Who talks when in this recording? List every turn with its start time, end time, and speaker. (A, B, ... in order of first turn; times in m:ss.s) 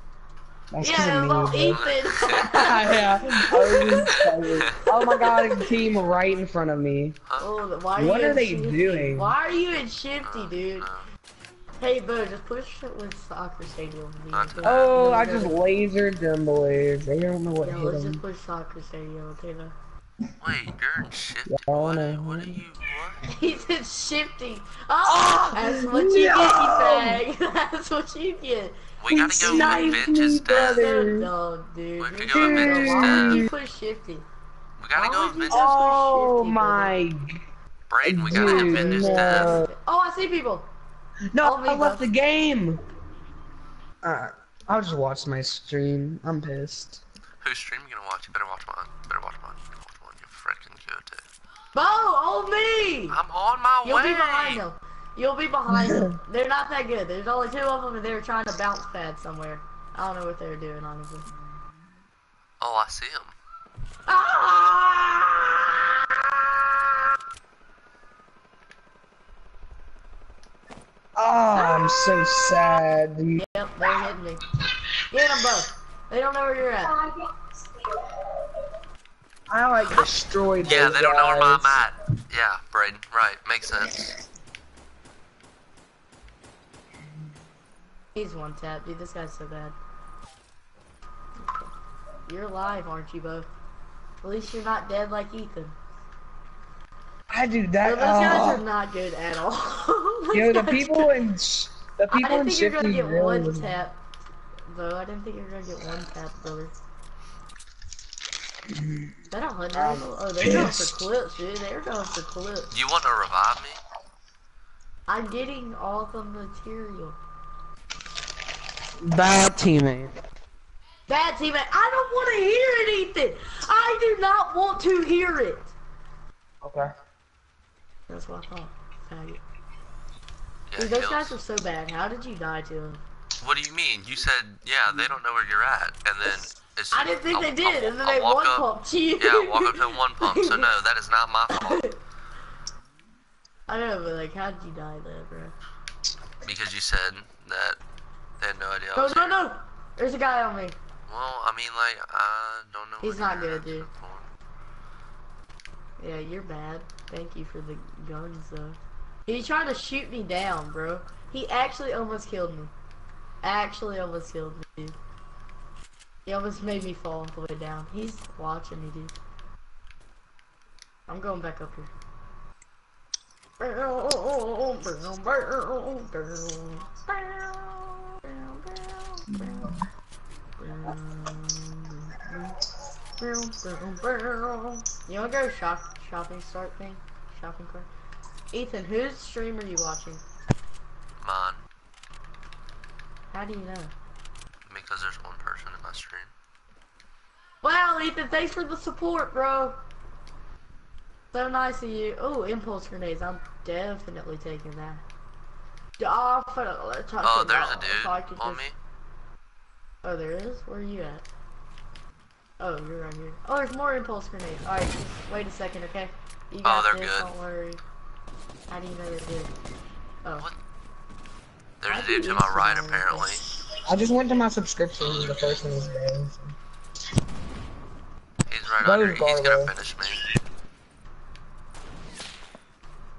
0:00.7-0:07.2 A
0:00.8-0:05.8 B
0:01.7-0:02.5 C
0:07.4-0:10.9 B
0:08.0-0:09.3 A
0:10.2-0:11.1 C
0:11.8-0:15.6 B
0:14.3-0:15.0 C
0:14.6-0:18.2 A
0:17.6-0:19.8 B
0:20.4-0:23.2 C
0:21.5-0:22.6 A
0:23.2-0:34.3 B
0:25.0-0:27.2 A
0:29.0-0:30.9 C
0:29.1-0:31.3 A
0:32.0-0:33.5 C
0:32.3-0:33.5 A
0:34.8-0:35.7 C
0:35.0-0:37.1 B
0:35.5-0:37.4 A
0:37.9-0:39.6 C
0:38.0-0:39.7 A
0:38.3-0:40.7 B
0:41.3-0:42.8 A
0:41.4-0:42.1 B
0:44.0-0:47.0 A
0:47.4-0:51.2 C
0:51.7-0:53.2 B
0:53.1-0:54.6 C
0:53.8-1:01.3 B
0:55.7-0:56.1 A
1:02.6-1:03.3 C
1:04.1-1:07.0 B
1:11.2-1:13.4 A
1:11.5-1:12.8 B
1:13.4-1:17.2 B
1:19.5-1:21.9 A
1:20.6-1:24.1 C
1:28.2-1:29.8 B
1:31.4-1:31.7 B
1:32.3-1:33.5 B
1:34.2-1:35.8 B
1:37.3-1:38.6 A
1:37.8-1:41.1 B
1:40.3-1:43.8 A
1:42.1-1:44.0 B
1:44.7-1:46.7 B
1:48.7-1:49.2 A
1:49.3-1:52.7 B
1:49.7-1:51.0 A
1:52.7-1:53.8 C
1:55.1-1:57.2 B
1:59.0-2:00.1 A
2:01.1-2:05.7 B
2:06.6-2:06.9 A
2:08.1-2:09.4 B
2:10.7-2:11.4 C
2:10.8-2:13.0 B
2:13.4-2:18.7 C
2:16.9-2:20.7 B
2:19.2-2:21.9 C
2:21.5-2:22.0 B
2:23.7-2:25.6 B
2:26.4-2:27.8 C
2:28.4-2:29.4 C
2:29.0-2:30.8 B
2:31.1-2:34.3 C
2:33.0-2:33.9 B
2:36.0-2:42.7 B
2:43.4-2:45.0 B
2:46.3-2:49.2 B
2:51.1-2:51.9 B
2:53.6-2:59.8 B
3:00.6-3:02.6 B
3:03.2-3:07.9 B
3:08.5-3:10.2 B
3:11.2-3:11.6 C
3:13.3-3:13.9 B
3:14.7-3:16.3 C
3:17.6-3:19.8 B
3:21.3-3:25.0 B
3:26.0-3:28.6 B
3:27.2-3:28.8 C
3:30.0-3:31.3 B
3:32.6-3:37.8 B
3:36.6-3:37.3 C
3:38.7-3:39.5 B
3:41.8-3:43.4 C
3:41.9-3:43.3 B
3:43.8-3:46.6 A
3:48.5-3:50.2 C
3:48.8-3:49.7 A